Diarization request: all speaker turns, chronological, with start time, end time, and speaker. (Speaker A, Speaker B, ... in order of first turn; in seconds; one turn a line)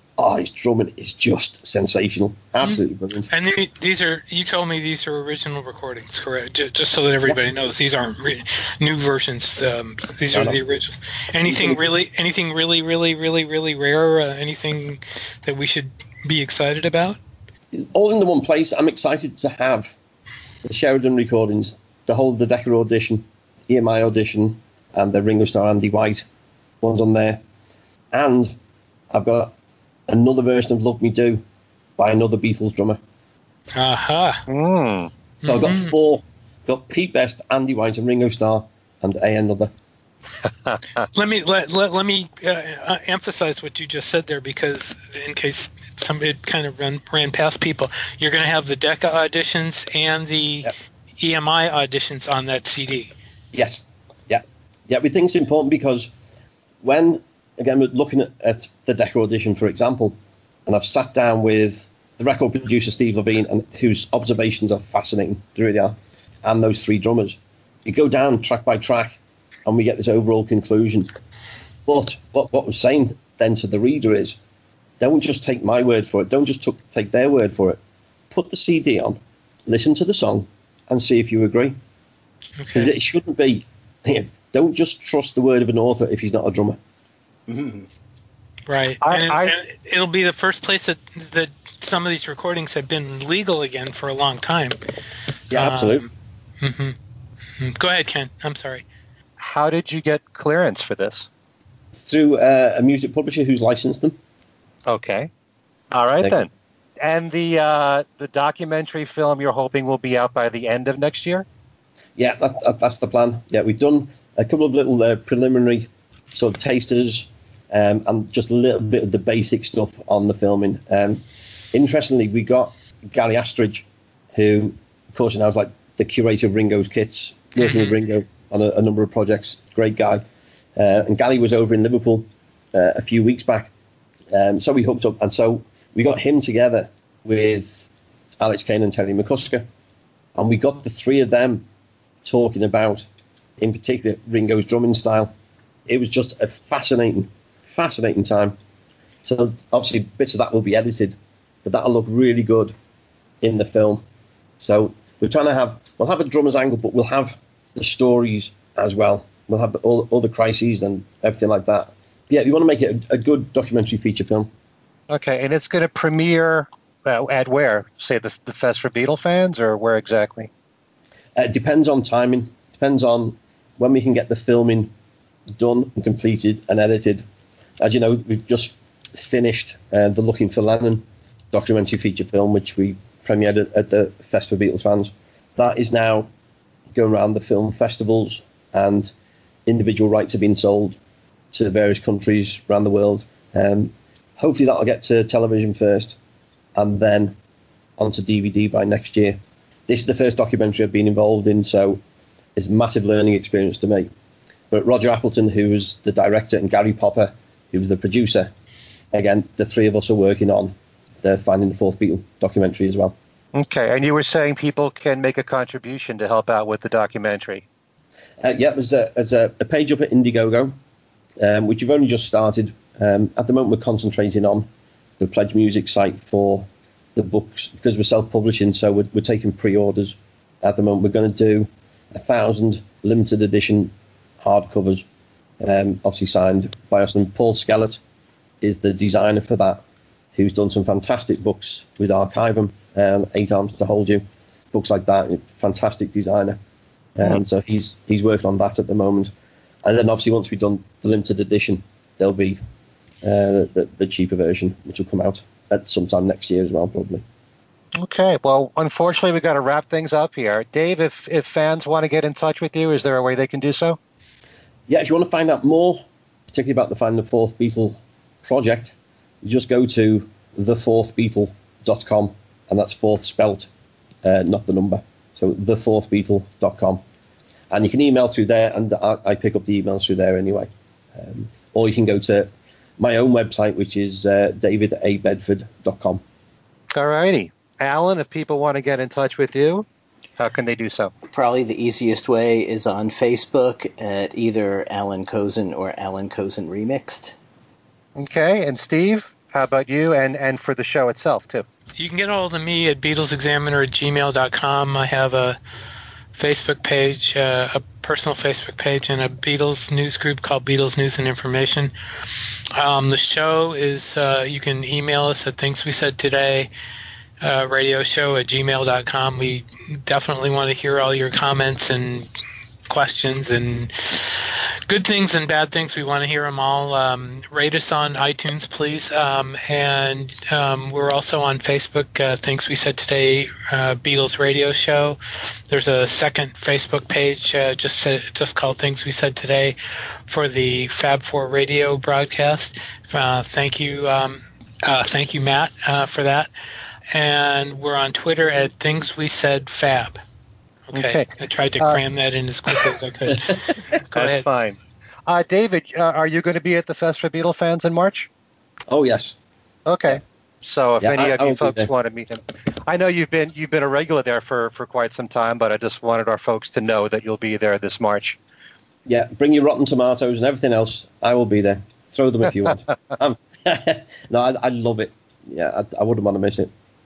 Speaker A: 0.2-3.3
Speaker B: 2.6-17.2
Speaker A: 10.3-10.6
Speaker A: 11.4-11.8
Speaker A: 17.7-19.9
Speaker A: 20.6-26.2
Speaker A: 26.8-27.4
Speaker A: 28.1-28.5
Speaker A: 29.1-29.5
Speaker A: 30.1-31.4
Speaker A: 32.0-33.0
Speaker B: 33.7-34.4
Speaker C: 34.5-35.1
Speaker B: 35.4-35.9
Speaker A: 35.4-39.7
Speaker C: 40.6-41.0
Speaker B: 41.1-53.1
Speaker A: 53.5-56.1
Speaker A: 56.8-71.1
Speaker A: 71.8-74.4
Speaker A: 75.0-77.8
Speaker A: 78.3-81.8
Speaker B: 82.6-82.9
Speaker A: 82.7-86.8
Speaker D: 87.5-87.9
Speaker B: 88.7-94.8
Speaker C: 89.0-89.5
Speaker B: 95.5-96.1
Speaker A: 95.5-96.0
Speaker B: 96.6-97.0
Speaker B: 97.6-98.8
Speaker C: 99.4-101.3
Speaker A: 101.9-104.2
Speaker C: 104.9-105.3
Speaker C: 105.9-106.5
Speaker C: 107.0-111.4
Speaker A: 112.2-121.2
Speaker A: 121.7-130.2
Speaker B: 127.6-128.0
Speaker A: 130.8-133.7
Speaker A: 134.3-137.9
Speaker A: 138.4-139.6
Speaker A: 140.3-141.7
Speaker A: 142.2-143.1
Speaker A: 143.6-145.3
Speaker A: 145.9-148.6
Speaker A: 149.2-152.7
Speaker A: 153.4-154.0
Speaker A: 154.6-164.5
Speaker C: 165.1-170.5
Speaker A: 171.3-174.9
Speaker A: 175.5-177.2
Speaker A: 177.8-186.3
Speaker A: 186.9-189.1
Speaker A: 189.7-191.0
Speaker A: 191.5-196.2
Speaker A: 196.7-197.3
Speaker A: 198.0-202.0
Speaker A: 202.6-204.1
Speaker A: 204.7-208.5
Speaker A: 209.1-213.1
Speaker C: 213.5-217.6
Speaker A: 218.4-220.7
Speaker A: 221.4-224.7
Speaker A: 225.2-235.1
Speaker A: 235.6-238.0
Speaker A: 238.6-239.8
Speaker A: 240.3-246.6
Speaker A: 247.2-249.3
Speaker A: 249.8-252.6
Speaker A: 253.2-257.2
Speaker C: 258.0-264.0
Speaker A: 264.9-273.7
Speaker A: 274.2-277.0
Speaker A: 277.7-286.2
Speaker C: 286.9-289.8
Speaker C: 290.4-291.1
Speaker D: 291.3-297.3
Speaker C: 298.1-301.6
Speaker B: 302.0-305.6
Speaker B: 306.3-311.9
Speaker B: 312.7-316.7
Speaker B: 317.4-322.3
Speaker B: 322.9-339.8
Speaker B: 340.3-346.5
Speaker B: 347.1-350.2
Speaker B: 350.9-354.4
Speaker C: 350.9-351.3
Speaker C: 354.1-358.3
Speaker A: 358.9-359.3
Speaker C: 359.9-368.4
Speaker A: 361.0-361.9
Speaker A: 369.1-376.7